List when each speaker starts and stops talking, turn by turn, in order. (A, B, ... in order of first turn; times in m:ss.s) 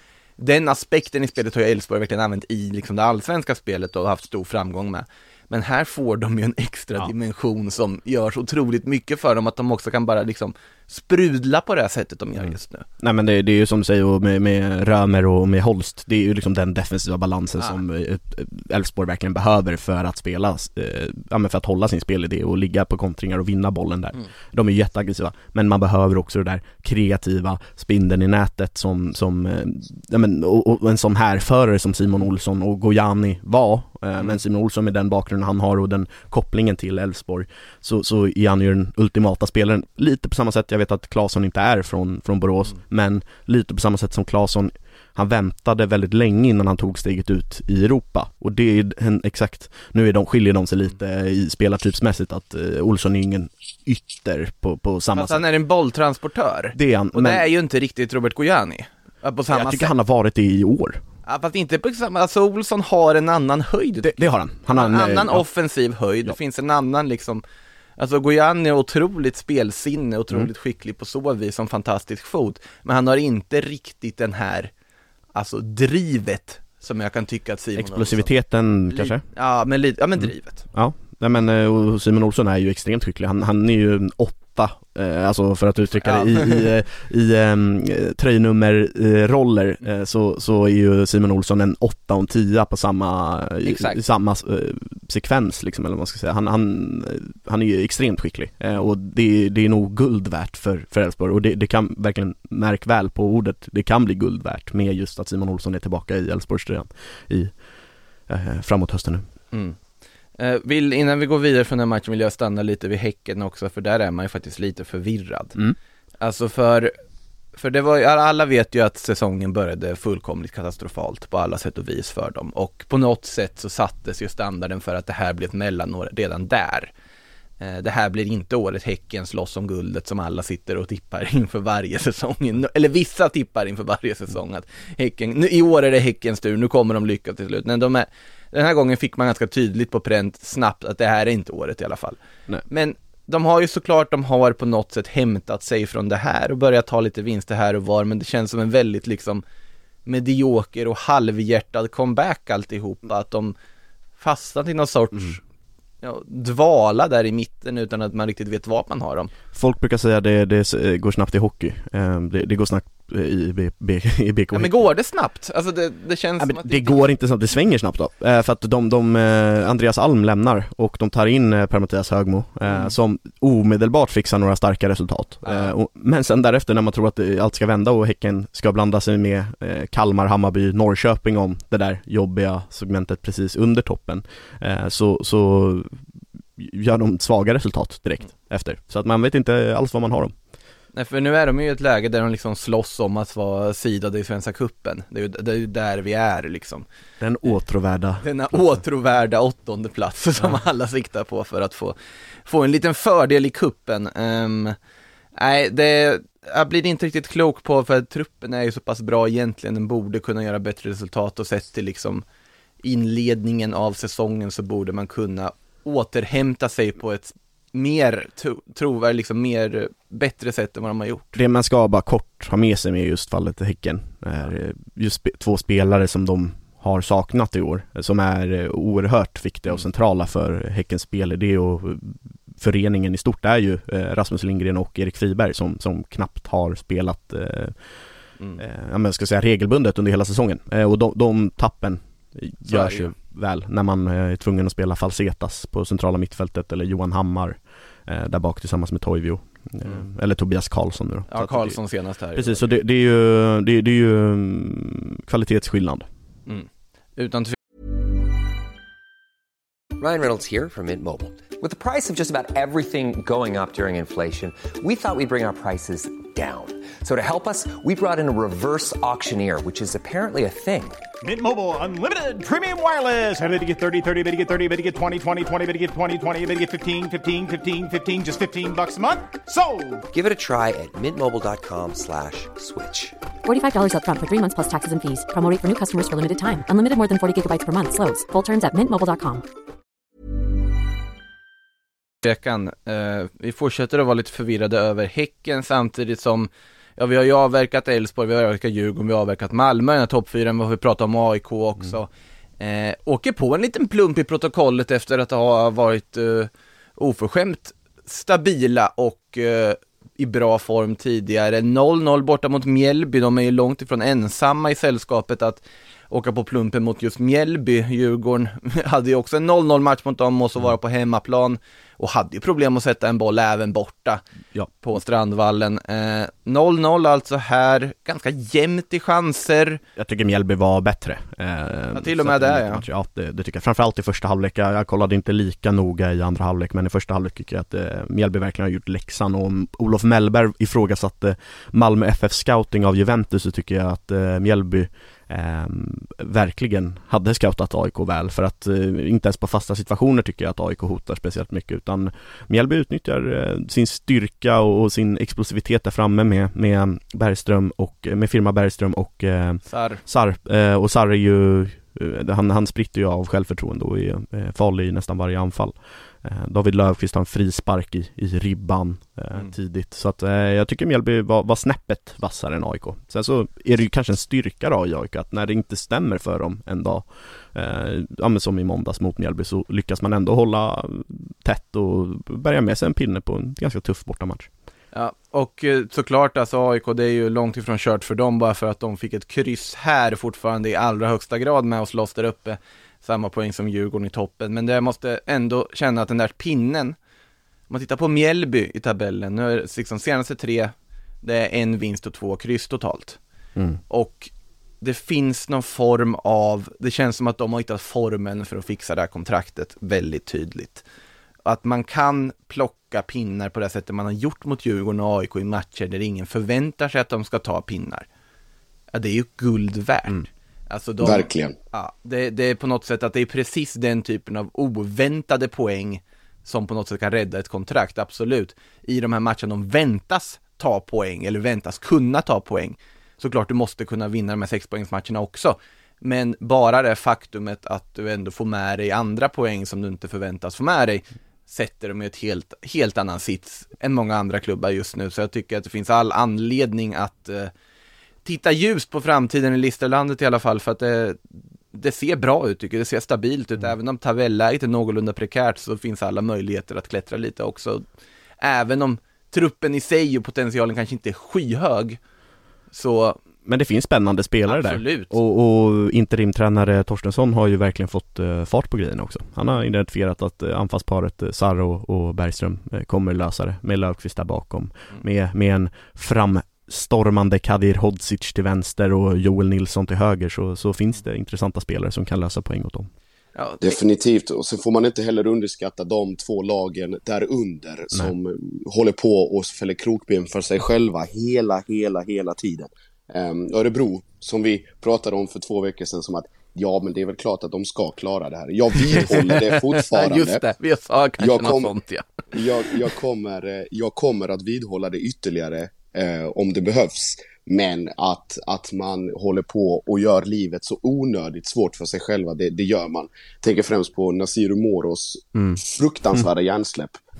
0:00.4-0:12.8 A
0:12.4-0:55.4 B
0:55.1-0:59.9 A
0:56.7-0:57.4 B
0:59.5-1:01.0 B
1:01.2-1:07.4 A
1:04.0-1:05.4 B
1:08.0-1:14.7 A
1:15.3-1:18.3 A
1:17.8-1:19.2 B
1:18.9-1:20.6 A
1:20.2-1:47.5 B
1:26.0-1:26.7 A
1:33.6-1:34.0 A
1:48.3-1:49.2 B
1:49.5-1:49.8 A
1:50.4-1:55.6 A
1:56.2-1:56.9 A
1:57.6-2:06.9 A
2:07.6-2:29.4 A
2:30.0-2:33.5 A
2:34.2-2:35.4 A
2:36.0-2:39.3 A
2:39.5-2:44.7 B
2:44.5-2:47.0 A
2:46.4-3:06.0 B
2:52.7-2:52.9 A
2:55.4-2:55.7 A
3:06.6-3:10.3 B
3:10.9-3:16.8 A
3:17.2-3:18.8 B
3:18.2-3:24.8 A
3:25.4-3:32.2 A
3:32.8-3:41.4 A
3:41.3-3:57.8 B
3:58.6-4:11.8 B
4:02.7-4:03.1 A
4:11.3-4:12.7 A
4:12.3-4:16.1 B
4:16.5-4:17.5 A
4:20.0-4:31.0 C
4:31.2-4:40.0 D
4:40.1-4:43.2 C
4:43.4-4:49.4 E
4:52.2-5:24.2 A
5:24.5-5:25.0 B
5:24.8-5:29.8 A
5:30.0-6:24.5 B
5:31.9-5:32.8 A
5:59.6-6:00.0 A
6:24.9-6:37.0 A
6:37.7-6:43.2 A
6:43.9-6:50.8 A
6:51.4-6:58.1 A
6:58.9-7:27.5 A
7:01.0-7:01.6 F
7:28.2-7:31.2 A
7:31.7-7:37.8 A
7:38.4-7:42.0 A
7:42.7-7:43.2 A
7:43.4-8:02.9 B
7:44.5-7:45.2 A
8:03.3-8:03.8 A
8:03.6-8:20.4 F
8:18.9-8:22.7 A
8:21.2-8:21.7 F
8:22.3-8:37.0 F